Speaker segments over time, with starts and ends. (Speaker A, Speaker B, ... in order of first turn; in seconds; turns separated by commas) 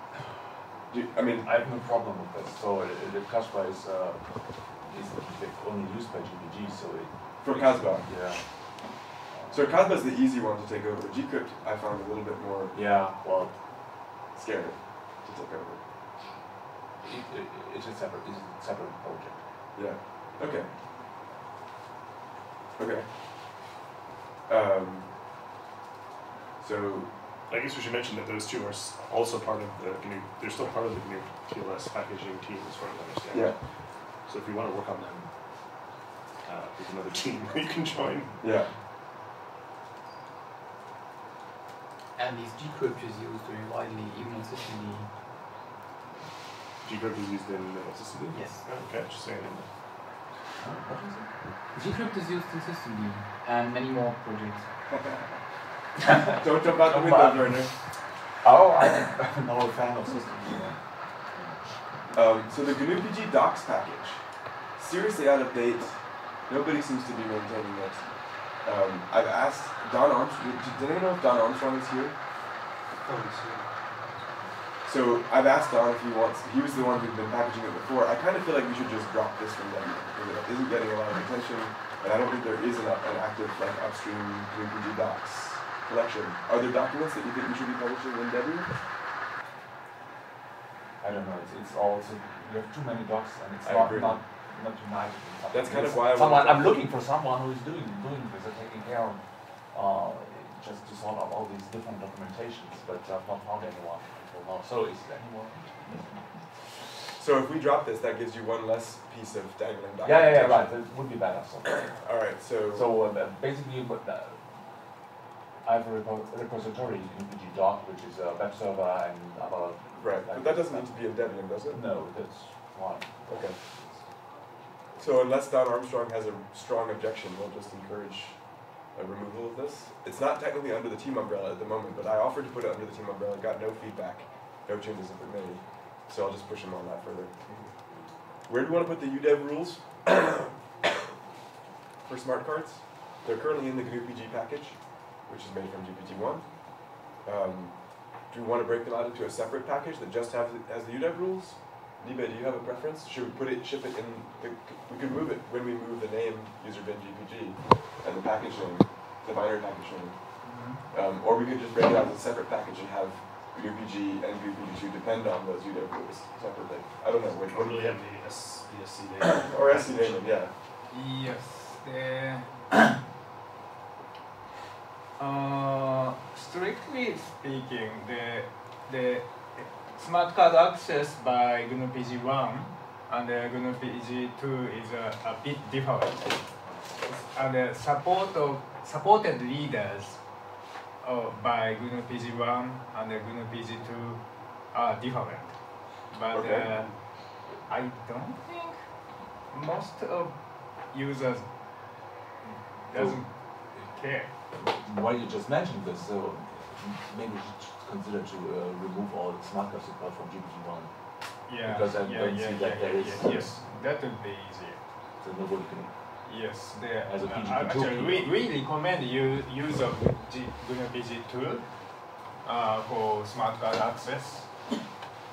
Speaker A: 0.9-1.5, Speaker B: 1.4-9.8, Speaker A: 7.4-8.4, Speaker A: 9.5-12.8, Speaker B: 12.7-13.6, Speaker A: 14.3-15.8, Speaker B: 17.0-19.4, Speaker A: 19.7-20.7, Speaker A: 22.8-23.1, Speaker A: 24.5-25.1, Speaker A: 26.6-27.1, Speaker C: 27.5-33.6, Speaker C: 34.1-35.3, Speaker C: 36.4-38.4, Speaker A: 38.4-38.7, Speaker D: 42.1-45.2, Speaker C: 46.8-49.7, Speaker D: 48.3-48.6, Speaker B: 50.6-51.3, Speaker D: 51.7-54.8, Speaker A: 56.4-58.0, Speaker B: 56.8-61.9, Speaker A: 62.1-72.2, Speaker D: 73.0-73.8, Speaker A: 74.8-88.7, Speaker B: 91.0-106.5, Speaker A: 93.6-94.2, Speaker A: 95.5-96.8, Speaker A: 107.1-111.2, Speaker B: 110.0-112.1, Speaker A: 111.9-112.9, Speaker B: 112.7-115.0, Speaker B: 115.6-125.0, Speaker A: 120.0-121.8, Speaker A: 123.3-123.6, Speaker A: 125.0-137.6, Speaker A: 138.4-140.5, Speaker A: 142.0-168.0, Speaker E: 160.4-160.8, Speaker C: 167.5-170.4, Speaker A: 169.4-170.5, Speaker E: 170.9-172.7, Speaker E: 175.2-190.3, Speaker B: 186.6-187.0, Speaker E: 191.0-198.8, Speaker A: 196.3-196.9, Speaker E: 199.5-201.6, Speaker E: 202.4-204.3, Speaker A: 202.9-203.2, Speaker B: 204.6-213.8, Speaker E: 211.4-214.8, Speaker B: 215.2-218.4, Speaker E: 216.2-224.6